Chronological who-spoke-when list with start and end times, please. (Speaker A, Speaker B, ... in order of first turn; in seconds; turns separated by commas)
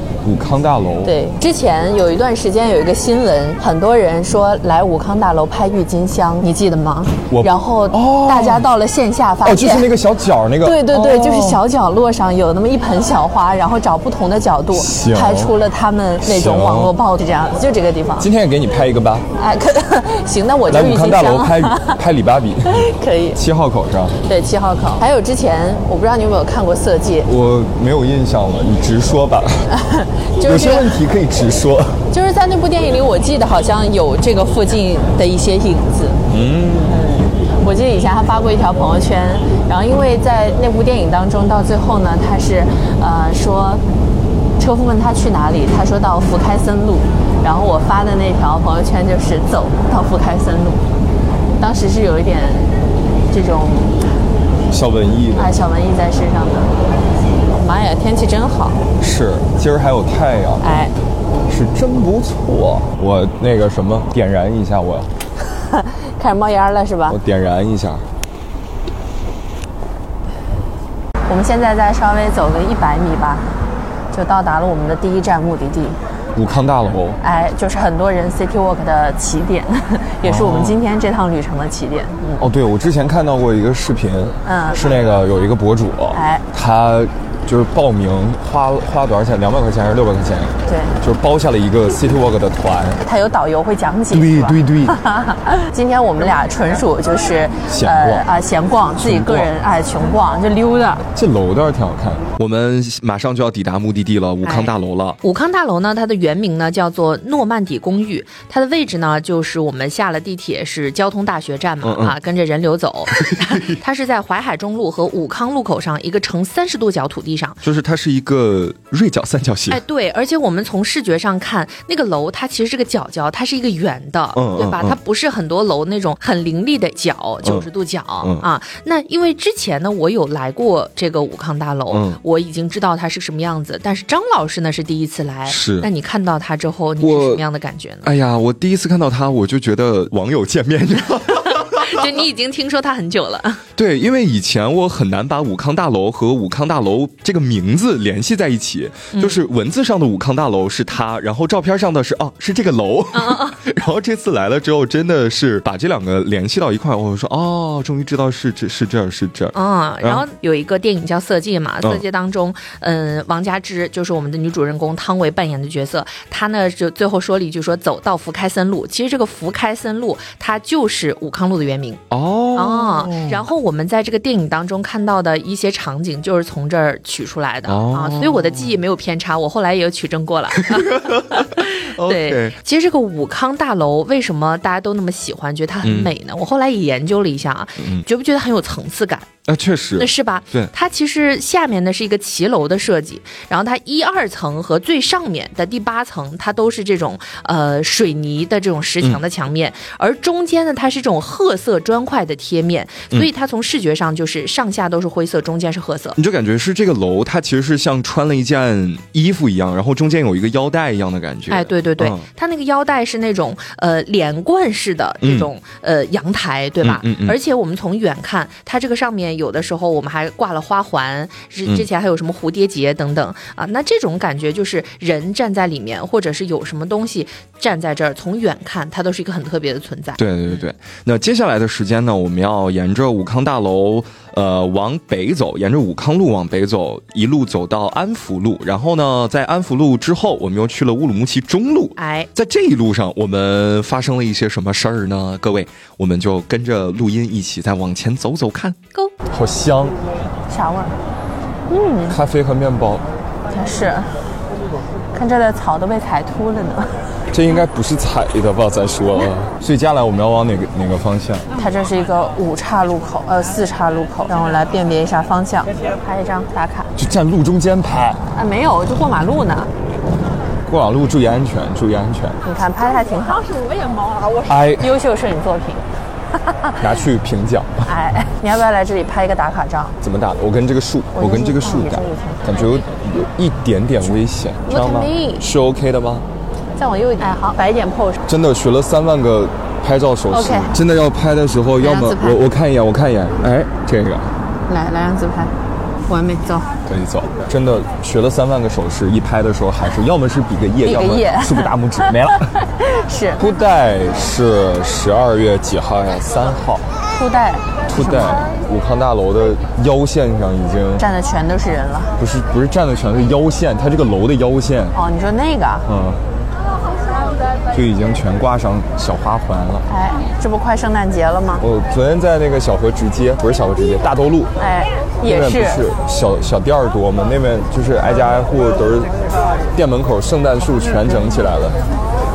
Speaker A: 0.2-1.1, Speaker B: 1.0-9.9, Speaker A: 7.3-8.7, Speaker A: 9.4-11.6, Speaker B: 10.6-18.3, Speaker A: 14.7-15.5, Speaker A: 16.2-16.9, Speaker A: 18.2-19.3, Speaker B: 19.4-22.0, Speaker A: 20.7-24.2, Speaker B: 22.7-23.4, Speaker B: 24.2-27.3, Speaker A: 27.2-29.7, Speaker B: 29.7-31.0, Speaker A: 30.4-32.1, Speaker B: 32.1-36.2, Speaker A: 36.3-37.0, Speaker B: 36.8-43.8, Speaker B: 44.6-50.9, Speaker B: 51.6-52.8, Speaker B: 53.3-54.0, Speaker A: 54.7-55.5, Speaker B: 55.4-56.7, Speaker B: 57.5-58.9, Speaker A: 59.0-60.7, Speaker B: 60.6-60.9, Speaker A: 61.5-65.1, Speaker B: 65.5-67.2, Speaker A: 67.1-68.1, Speaker B: 71.3-73.5, Speaker B: 74.1-76.0, Speaker A: 76.4-77.2, Speaker B: 77.2-82.5, Speaker A: 80.2-80.8, Speaker A: 82.4-93.0, Speaker B: 84.5-84.8, Speaker B: 86.1-86.4, Speaker B: 90.7-91.0, Speaker B: 93.0-101.0, Speaker A: 94.1-95.0, Speaker A: 97.7-98.3, Speaker A: 99.0-99.5, Speaker A: 101.2-105.2, Speaker C: 104.4-104.7, Speaker C: 105.2-117.6, Speaker A: 111.8-112.2, Speaker A: 113.2-113.8, Speaker A: 117.6-119.8, Speaker C: 119.7-138.1, Speaker A: 124.3-125.0, Speaker A: 131.9-132.2, Speaker A: 135.5-135.9, Speaker A: 137.0-137.4, Speaker A: 138.0-142.2, Speaker C: 141.4-143.6, Speaker A: 143.8-160.2, Speaker C: 149.1-149.4, Speaker C: 153.1-153.6, Speaker C: 159.6-172.0, Speaker A: 172.1-173.4, Speaker C: 172.5-189.3, Speaker A: 177.7-178.7, Speaker A: 180.6-182.6, Speaker A: 185.8-186.1, Speaker A: 189.5-190.7, Speaker C: 190.0-206.2, Speaker A: 206.2-212.3, Speaker C: 211.5-230.6, Speaker A: 215.2-215.5, Speaker A: 216.8-217.4, Speaker A: 230.2-248.8, Speaker C: 242.0-242.3, Speaker A: 249.3-250.0, Speaker B: 250.5-250.9, Speaker B: 251.7-252.2, Speaker A: 252.1-253.1, Speaker B: 253.5-254.1, Speaker B: 255.1-256.9, Speaker A: 257.3-261.5, Speaker B: 261.6-266.9, Speaker A: 267.0-268.2, Speaker B: 268.4-269.7, Speaker A: 270.7-272.4, Speaker B: 272.4-273.7, Speaker A: 274.5-274.9, Speaker B: 274.7-275.9, Speaker B: 276.4-276.8, Speaker A: 276.8-277.9, Speaker B: 277.8-280.0, Speaker A: 280.0-286.3, Speaker B: 281.1-282.7, Speaker B: 284.7-285.5, Speaker B: 286.8-288.2, Speaker A: 288.3-294.3, Speaker B: 290.3-290.7, Speaker B: 291.8-292.4, Speaker B: 294.7-295.5, Speaker B: 296.1-296.8, Speaker A: 296.9-302.5, Speaker B: 300.8-303.4, Speaker A: 303.4-306.9, Speaker B: 307.2-308.5, Speaker A: 307.9-311.1, Speaker B: 311.0-312.2, Speaker A: 312.2-314.9, Speaker B: 314.9-315.9, Speaker A: 315.9-316.2, Speaker A: 317.7-319.9, Speaker B: 319.9-321.6, Speaker A: 321.6-324.5, Speaker B: 324.6-325.8, Speaker A: 325.2-329.1, Speaker A: 329.7-331.8